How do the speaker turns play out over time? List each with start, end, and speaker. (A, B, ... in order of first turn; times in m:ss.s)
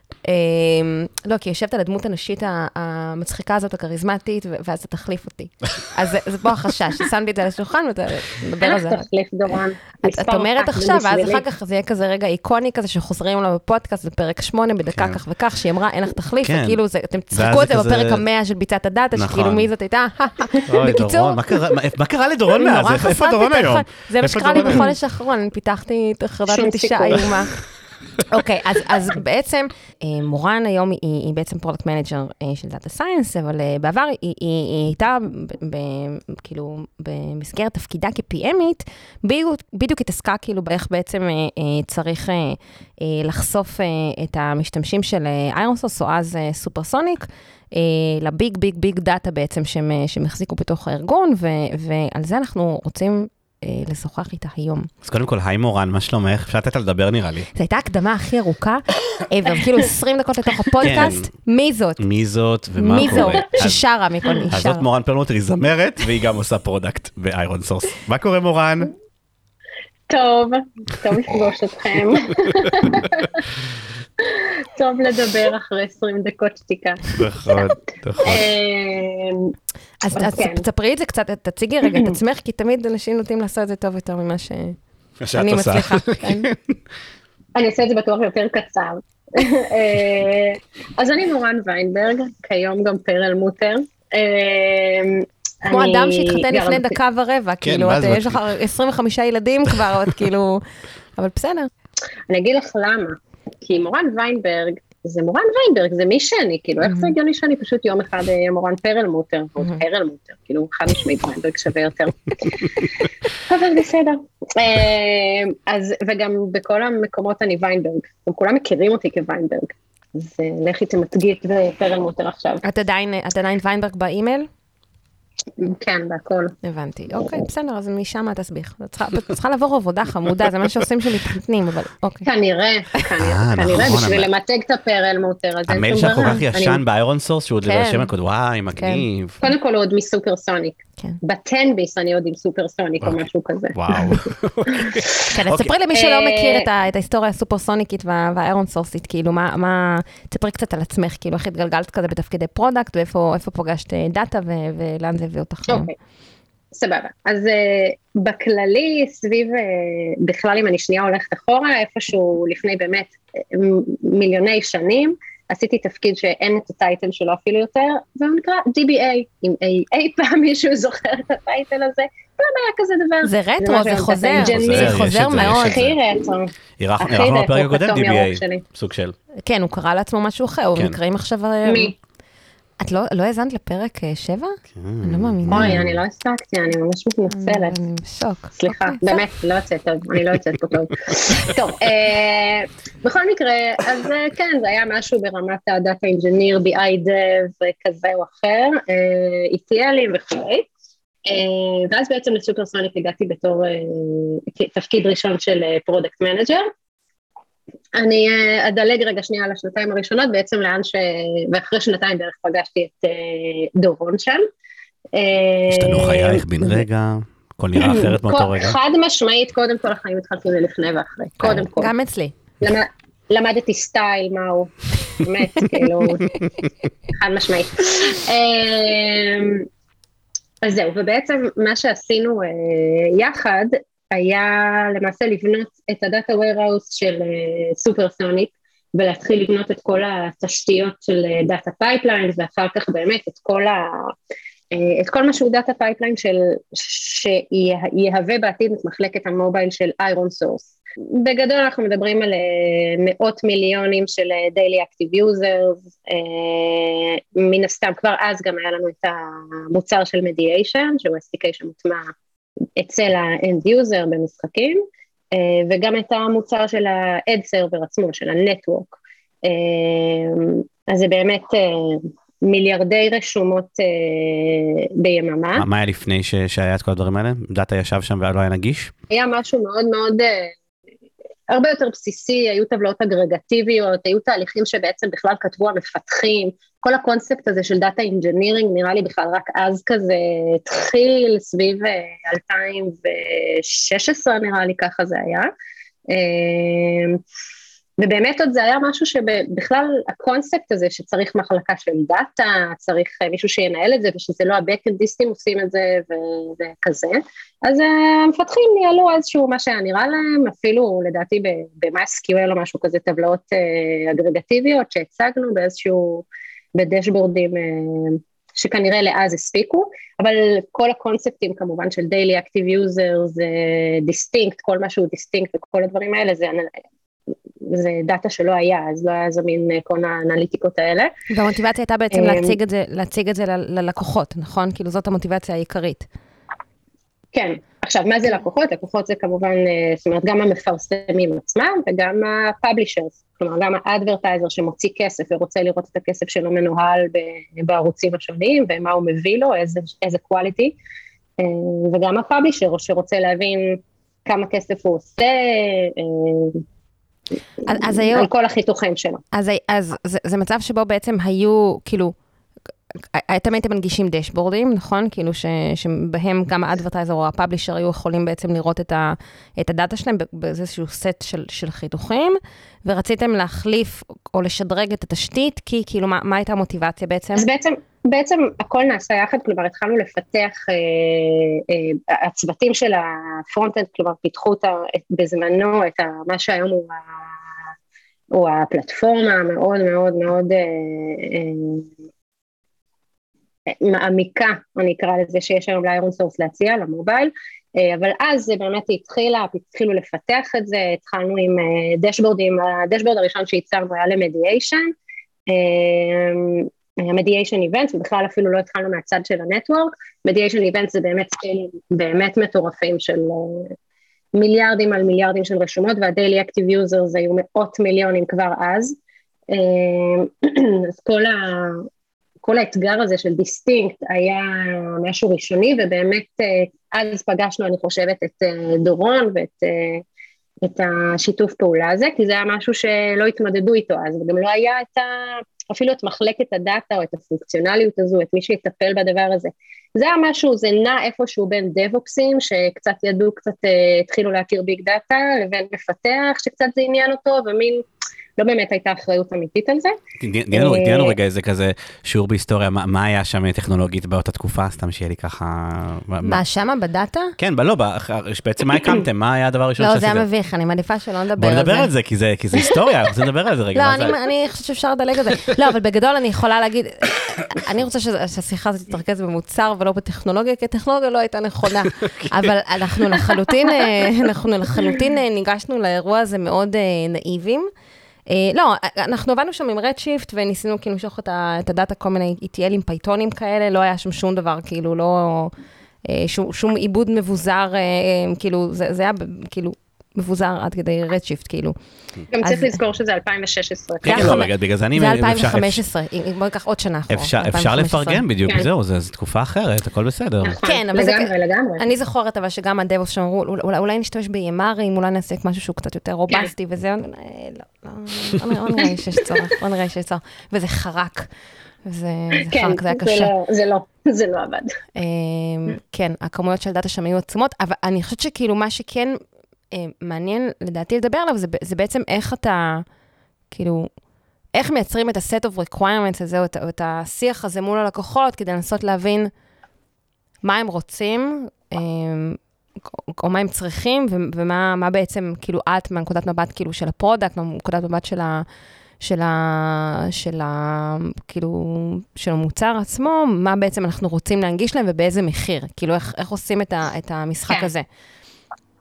0:00.2-0:09.0 A
0:08.6-0:11.4 B
0:10.0-0:21.4 A
0:14.9-0:15.2 C
0:16.4-0:16.8 C
0:17.3-0:18.2 C
0:19.2-0:19.7 C
0:20.7-0:24.9 C
0:22.5-0:27.5 A
0:26.5-0:27.5 B
0:28.3-0:54.9 A
0:55.0-0:57.5 C
0:57.5-1:02.0 A
1:00.8-1:01.3 C
1:02.0-1:03.8 C
1:02.8-1:04.8 A
1:03.0-1:03.3 B
1:04.5-1:08.9 C
1:10.1-1:13.4 B
1:12.7-1:13.0 C
1:14.2-1:17.7 B
1:17.2-1:18.4 C
1:18.2-1:19.5 B
1:20.0-1:24.8 A
1:20.1-1:20.6 B
1:25.2-1:26.7 C
1:25.3-1:26.5 A
1:27.5-1:36.9 B
1:35.7-1:40.6 A
1:37.6-1:38.5 C
1:41.2-1:41.7 A
1:42.3-2:02.6 B
1:46.8-1:47.1 A
2:02.6-2:04.5 A
2:05.6-2:06.5 B
2:06.6-2:12.3 A
2:12.2-2:16.8 B
2:13.2-2:14.3 C
2:15.7-2:19.4 C
2:17.6-2:18.1 A
2:18.7-2:19.0 A
2:19.4-2:23.8 B
2:23.7-2:25.7 C
2:24.8-2:25.1 B
2:25.3-2:35.9 A
2:25.9-2:26.6 B
2:35.7-2:35.9 B
2:36.7-2:58.6 B
2:53.2-2:55.8 A
2:54.4-2:56.0 C
2:56.8-2:59.1 C
2:59.4-3:01.9 A
3:01.6-3:01.9 B
3:02.8-3:05.8 A
3:04.7-3:06.0 C
3:05.5-3:07.8 B
3:07.3-3:09.2 A
3:08.6-3:20.7 B
3:21.2-3:26.7 B
3:28.0-3:34.4 B
3:35.1-3:36.8 B
3:35.7-3:38.8 C
3:37.8-3:41.9 B
3:41.4-3:42.3 A
3:42.6-3:46.3 B
3:46.2-3:46.5 C
3:47.1-3:49.7 B
3:50.6-4:04.1 B
4:04.7-4:22.1 B
4:22.8-4:35.6 B
4:35.6-4:38.9 C
4:39.1-4:40.5 B
4:41.5-4:55.5 B
4:56.1-4:57.2 B
4:58.0-5:26.7 B
5:27.6-5:31.1 B
5:31.3-5:36.1 A
5:32.1-5:32.6 B
5:37.3-5:50.7 B
5:51.4-5:56.6 B
5:57.6-5:58.3 A
5:58.0-5:59.2 B
5:59.3-6:02.1 A
6:03.1-6:17.4 A
6:17.4-6:27.0 B
6:28.3-6:31.9 B
6:33.7-6:44.9 B
6:45.5-6:53.7 B
6:54.3-6:59.0 B
6:59.5-7:01.9 B
7:02.4-7:10.0 B
7:10.6-7:27.8 B
7:28.4-7:30.0 B
7:30.2-7:36.4 C
7:30.5-7:31.2 B
7:36.2-7:37.3 A
7:37.4-7:40.2 C
7:39.8-7:41.9 A
7:41.4-7:44.2 C
7:43.7-7:57.7 A
7:58.3-8:05.5 A
8:06.0-8:11.8 A
8:12.3-8:14.4 B
8:12.4-8:12.8 A
8:14.0-8:15.8 C
8:14.1-8:18.2 A
8:17.1-8:20.6 C
8:20.4-8:21.8 B
8:20.6-8:31.3 A
8:31.8-8:33.3 A
8:32.4-8:34.8 B
8:35.0-8:39.2 A
8:39.7-8:42.8 A
8:43.5-8:43.9 A
8:44.5-8:49.3 A
8:50.4-8:52.4 A
8:52.9-8:58.4 A
8:59.0-9:07.8 A